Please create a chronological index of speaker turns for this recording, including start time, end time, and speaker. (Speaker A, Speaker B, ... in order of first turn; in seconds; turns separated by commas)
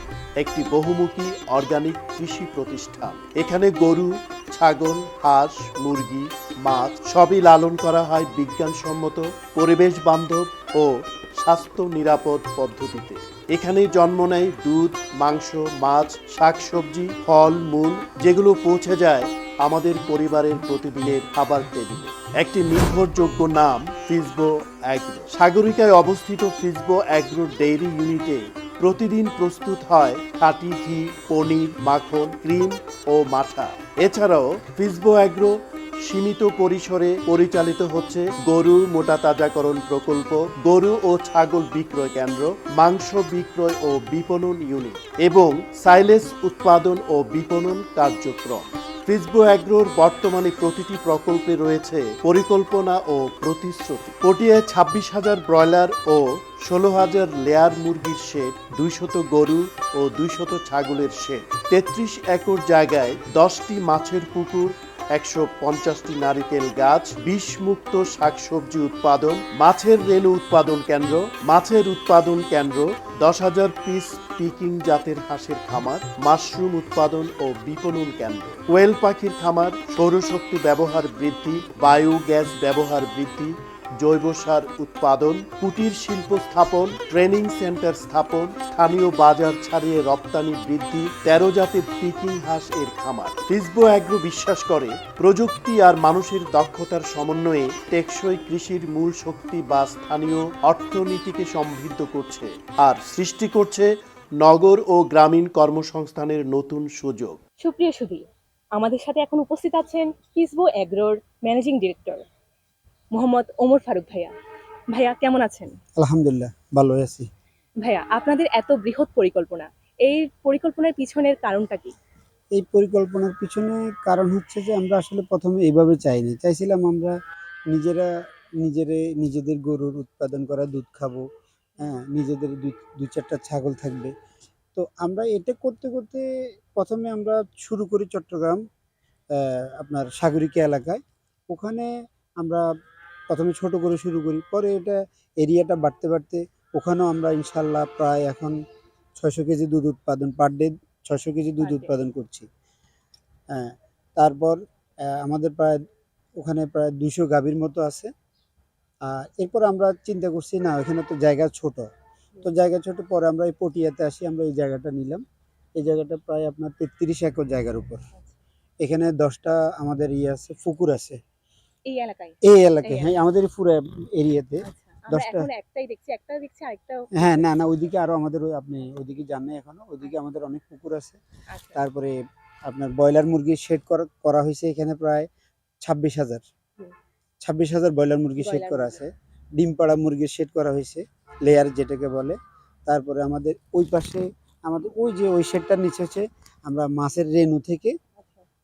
Speaker A: 0.4-107.4, Speaker B: 107.6-108.3, Speaker B: 108.8-112.2, Speaker B: 113.1-114.3, Speaker B: 114.9-115.8, Speaker C: 116.0-117.3, Speaker B: 117.8-122.0, Speaker C: 122.5-127.2, Speaker C: 127.7-131.3, Speaker C: 131.8-134.1, Speaker C: 134.8-138.6, Speaker C: 139.3-142.7, Speaker C: 143.3-148.6, Speaker C: 149.2-152.5, Speaker B: 151.6-151.9, Speaker C: 153.5-155.8, Speaker C: 156.4-158.1, Speaker C: 159.0-161.9, Speaker C: 162.4-165.2, Speaker C: 165.8-168.0, Speaker C: 168.8-171.2, Speaker B: 171.9-173.2, Speaker C: 172.4-175.5, Speaker B: 174.7-177.5, Speaker C: 177.2-181.2, Speaker B: 181.5-181.8, Speaker C: 181.7-185.3, Speaker C: 185.8-186.4, Speaker C: 187.4-198.0, Speaker B: 188.4-189.0, Speaker B: 198.2-198.4